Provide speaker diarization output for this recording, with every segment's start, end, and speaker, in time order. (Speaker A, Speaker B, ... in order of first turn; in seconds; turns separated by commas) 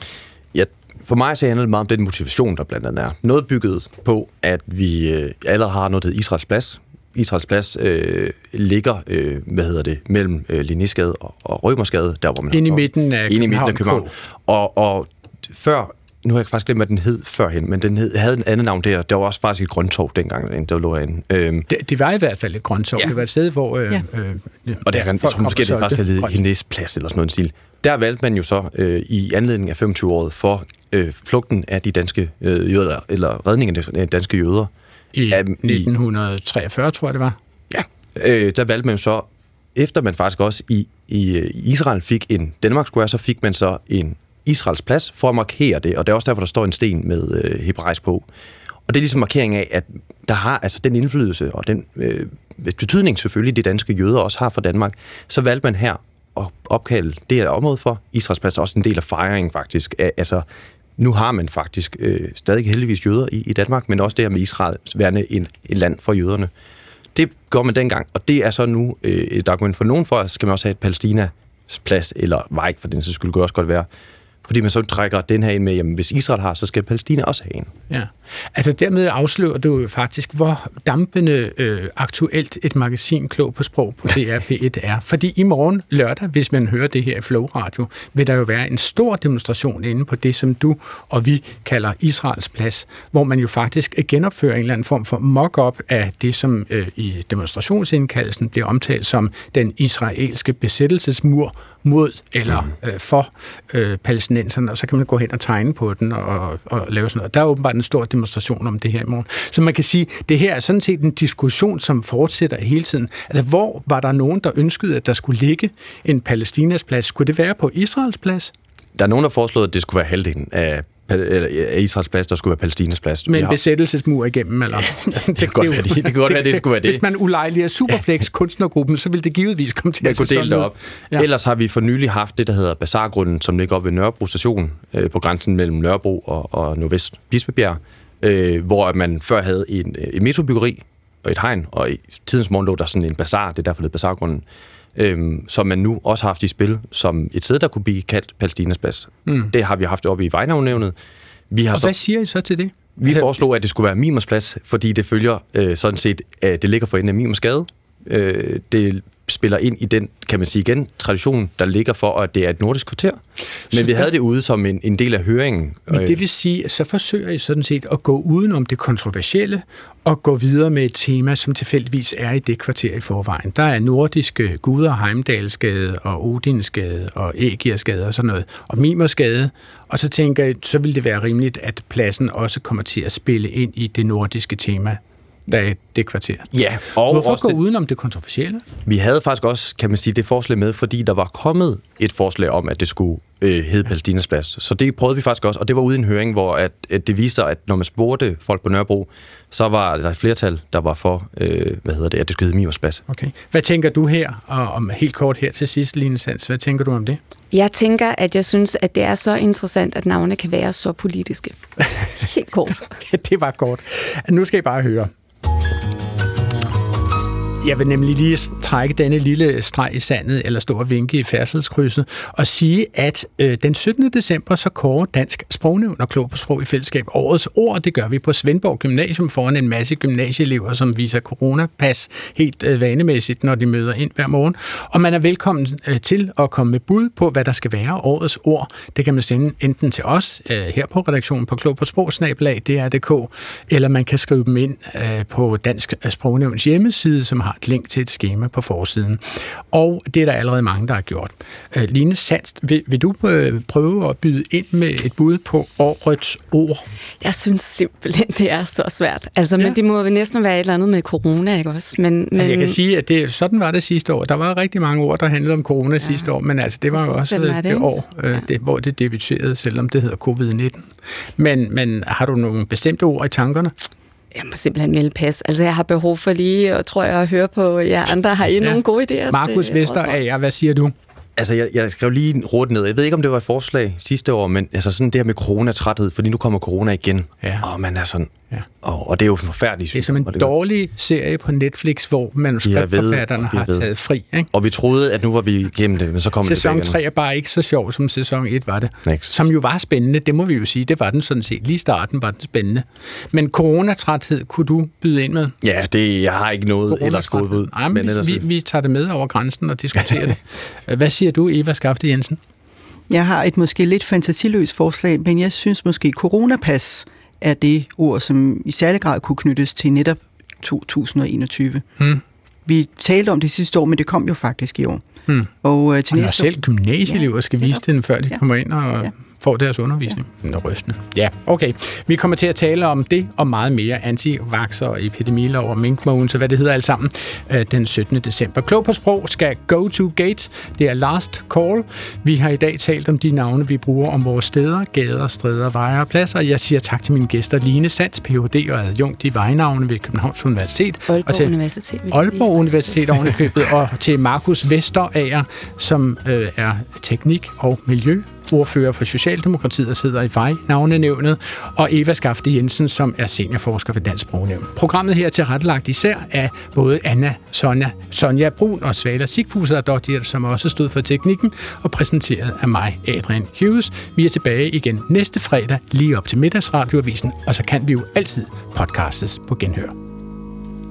Speaker A: 0.5-21.7, Speaker B: 12.5-14.1, Speaker B: 21.7-26.4, Speaker A: 24.9-34.7, Speaker B: 35.1-37.4, Speaker A: 35.3-35.9, Speaker A: 37.7-48.2, Speaker A: 48.9-60.5, Speaker A: 61.0-66.5, Speaker A: 67.2-73.9, Speaker A: 74.5-77.7, Speaker B: 77.9-118.5, Speaker A: 119.0-123.6, Speaker B: 123.3-131.3, Speaker A: 125.4-127.0, Speaker A: 130.0-144.4, Speaker A: 145.0-151.0, Speaker A: 151.5-152.0, Speaker B: 151.7-153.3, Speaker A: 153.0-166.2, Speaker B: 165.9-188.7, Speaker A: 186.5-187.6, Speaker A: 188.9-203.0, Speaker B: 203.1-207.2, Speaker C: 207.5-211.6, Speaker C: 212.2-212.9, Speaker B: 212.8-215.1, Speaker B: 217.6-256.9, Speaker C: 257.2-262.8, Speaker B: 262.4-273.7, Speaker C: 266.9-268.4, Speaker C: 274.3-280.2, Speaker B: 278.6-280.9, Speaker A: 281.4-290.5, Speaker B: 287.4-287.7, Speaker B: 289.9-294.5, Speaker A: 292.6-293.9, Speaker A: 294.5-297.0, Speaker B: 296.4-305.6, Speaker A: 299.1-299.4, Speaker A: 305.6-308.4, Speaker B: 306.9-312.4, Speaker D: 313.1-321.9, Speaker D: 322.7-325.1, Speaker D: 325.6-327.7, Speaker B: 326.1-351.6, Speaker C: 351.1-352.9, Speaker B: 352.1-380.0